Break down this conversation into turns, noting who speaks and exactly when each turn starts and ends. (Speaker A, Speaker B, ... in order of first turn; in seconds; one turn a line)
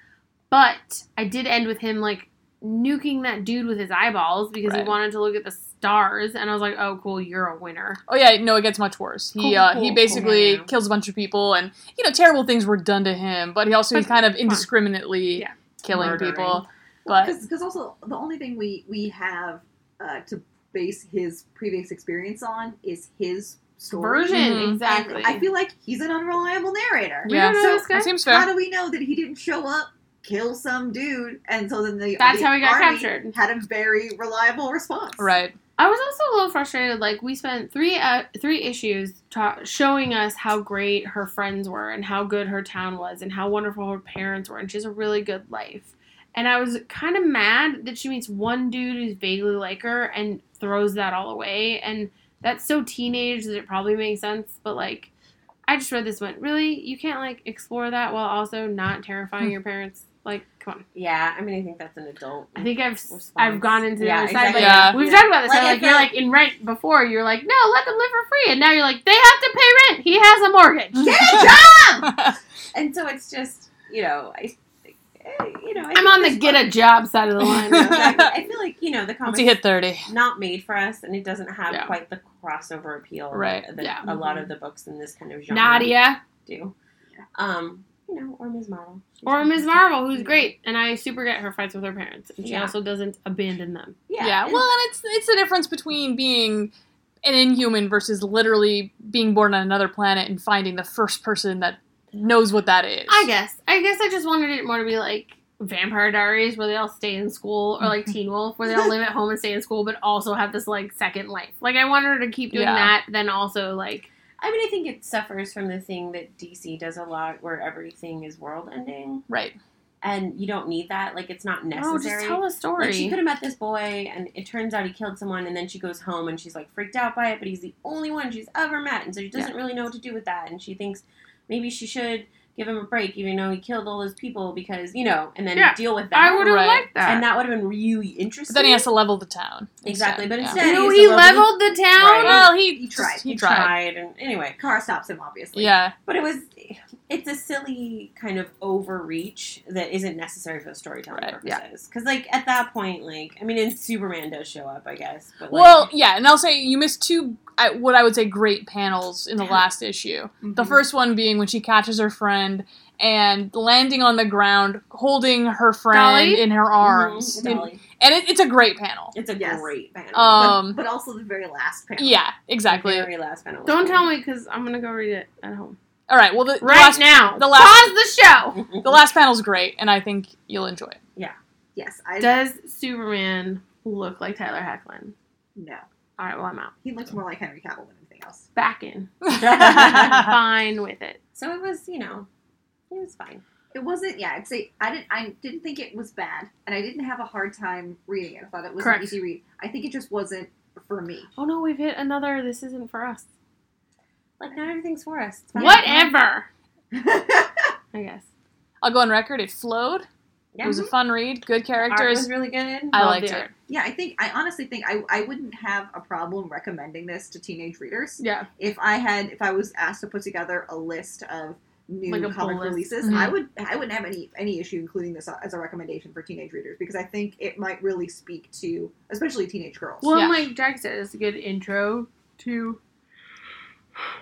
Speaker A: 0.5-8.0
Speaker B: 4.6-4.9
Speaker B: 8.1-17.4
Speaker A: 9.4-10.3
Speaker C: 9.4-10.7
Speaker A: 13.9-14.7
Speaker A: 15.3-16.5
Speaker C: 15.9-16.6
Speaker D: 17.1-35.3
Speaker A: 23.9-25.5
Speaker B: 24.4-24.8
Speaker A: 27.2-28.1
Speaker B: 27.2-28.5
Speaker A: 32.2-33.3
Speaker B: 35.2-35.5
Speaker A: 35.8-55.1
Speaker A: 55.7-60.8
Speaker C: 60.9-66.1
Speaker A: 62.5-71.2
Speaker B: 64.5-65.0
Speaker D: 64.9-65.3
Speaker B: 71.0-72.4
Speaker D: 71.0-72.1
Speaker C: 72.7-76.8
Speaker A: 75.9-78.1
Speaker B: 77.4-78.3
Speaker C: 77.8-86.7
Speaker B: 79.2-80.1
Speaker A: 81.7-82.0
Speaker B: 83.3-83.7
Speaker A: 83.8-84.1
Speaker A: 85.5-86.2
Speaker C: 87.3-90.5
Speaker A: 89.2-94.0
Speaker C: 92.4-92.8
Speaker C: 94.1-94.6
Speaker B: 94.2-96.7
Speaker B: 97.2-103.3
Speaker A: 103.1-114.1
Speaker B: 112.5-112.9
Speaker C: 114.4-119.2
Speaker B: 119.3-119.6
Speaker C: 120.0-136.5
Speaker A: 121.7-123.2
Speaker A: 135.5-137.2
Speaker B: 136.4-136.9
Speaker C: 137.0-138.8
Speaker B: 138.5-140.7
Speaker C: 139.8-142.5
Speaker A: 140.5-142.4
Speaker D: 140.6-141.4
Speaker B: 142.2-143.7
Speaker D: 142.3-143.2
Speaker C: 143.3-144.6
Speaker D: 144.6-145.8
Speaker B: 145.5-145.9
Speaker C: 146.1-155.9
Speaker B: 151.1-151.4
Speaker B: 155.5-169.2
Speaker D: 159.4-159.7
Speaker D: 160.4-160.8
Speaker A: 165.9-166.5
Speaker C: 166.8-167.8
Speaker D: 167.3-167.6
Speaker C: 169.1-170.7
Speaker D: 169.3-169.7
Speaker B: 170.1-170.8
Speaker D: 170.3-172.2
Speaker B: 172.0-173.1
Speaker C: 172.7-174.1
Speaker A: 173.6-175.8
Speaker B: 176.1-177.9
Speaker A: 176.6-178.6
Speaker C: 178.5-179.0
Speaker B: 178.8-181.0
Speaker D: 181.7-182.4
Speaker A: 182.2-185.1
Speaker D: 185.5-185.8
Speaker A: 186.2-186.7
Speaker D: 186.8-188.4
Speaker A: 188.5-191.2
Speaker B: 189.2-190.3
Speaker C: 189.5-190.2
Speaker C: 191.3-192.3
Speaker C: 192.9-193.4
Speaker D: 193.7-201.3
Speaker A: 198.8-199.2
Speaker A: 201.3-203.2
Speaker C: 204.4-205.9
Speaker A: 205.5-206.5
Speaker B: 205.6-206.1
Speaker D: 206.9-207.7
Speaker A: 207.9-208.2
Speaker B: 208.8-210.1
Speaker C: 210.5-210.9
Speaker B: 210.6-212.3
Speaker C: 211.8-213.0
Speaker B: 212.9-213.5
Speaker A: 212.9-213.5
Speaker D: 213.7-230.1
Speaker A: 218.2-218.5
Speaker A: 222.1-223.3
Speaker B: 223.0-223.4
Speaker A: 230.0-232.8
Speaker B: 230.1-230.5